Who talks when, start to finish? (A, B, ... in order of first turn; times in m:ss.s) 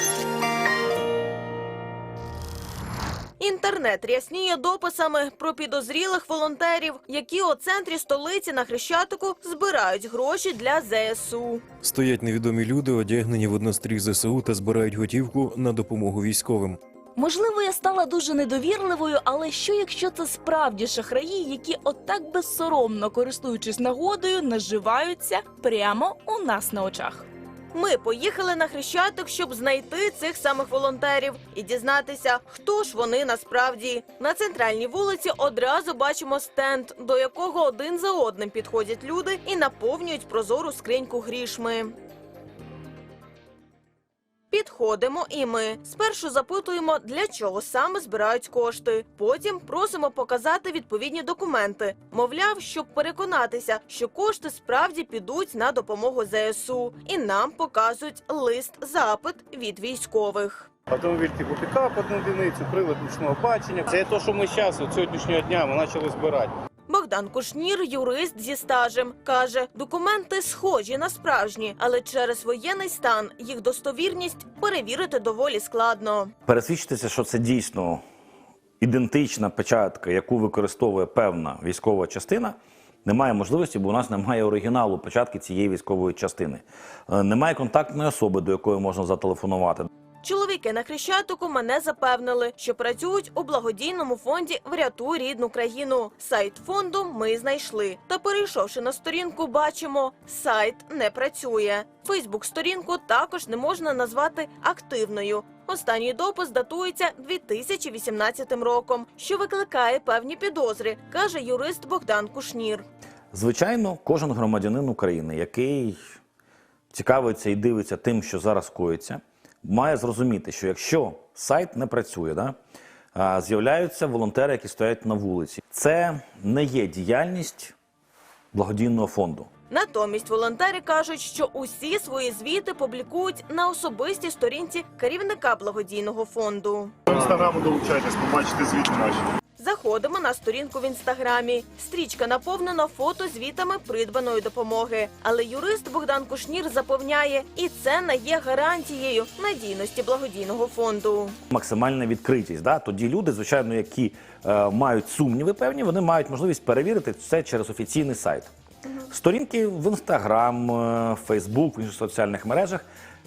0:03.4-0:11.6 A
0:11.8-0:16.8 B
0:17.2-0:27.3 C
0:27.7-0:42.0 A
0:44.5-1:00.7 A
1:00.9-1:06.6 D
1:06.9-1:16.3 A
1:16.5-1:18.0 E
1:18.8-1:29.9 E
1:30.2-1:52.9 A
1:53.3-1:56.0 E
1:56.9-2:02.6 E
2:03.2-2:07.7 E
2:08.5-2:09.5 E
2:09.7-2:16.9 A
2:17.1-2:19.2 F
2:19.6-2:31.4 A
2:31.5-2:38.5 E
2:39.1-2:42.9 E